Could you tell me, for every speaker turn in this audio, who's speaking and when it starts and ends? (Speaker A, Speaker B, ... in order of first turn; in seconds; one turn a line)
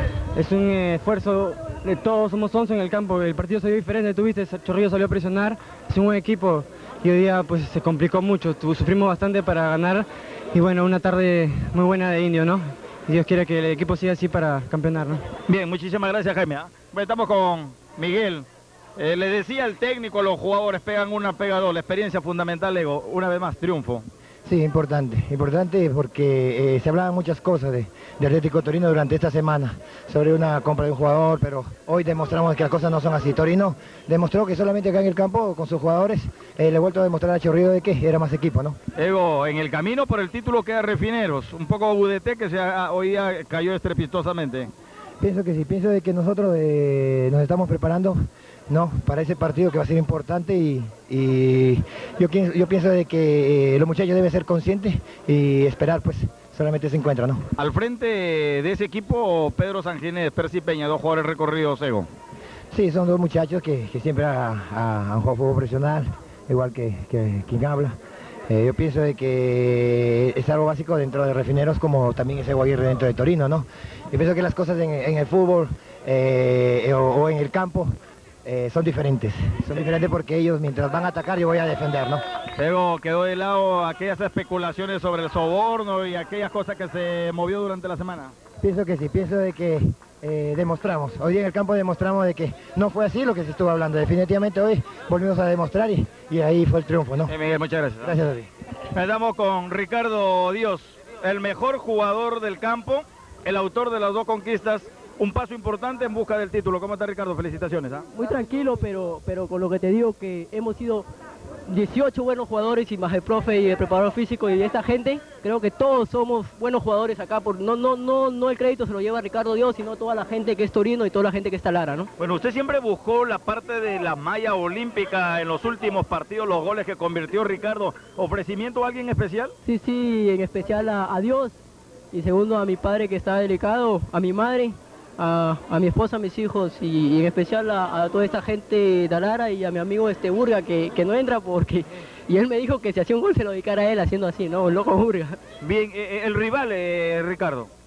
Speaker A: 0.4-15.2
Speaker B: 15.5-24.1
Speaker C: 24.5-38.8
Speaker B: 39.0-44.7
Speaker C: 45.2-48.2
Speaker C: 48.7-57.4
Speaker B: 57.6-62.1
Speaker C: 62.7-68.0
Speaker C: 68.5-77.9
Speaker C: 78.5-82.2
Speaker B: 82.6-88.3
Speaker C: 88.6-97.3
Speaker B: 97.3-98.2
Speaker C: 98.0-98.5
Speaker B: 98.9-108.1
Speaker D: 108.1-111.1
Speaker D: 111.7-122.1
Speaker B: 122.2-129.5
Speaker D: 129.7-131.6
Speaker D: 132.1-145.4
Speaker B: 145.6-147.7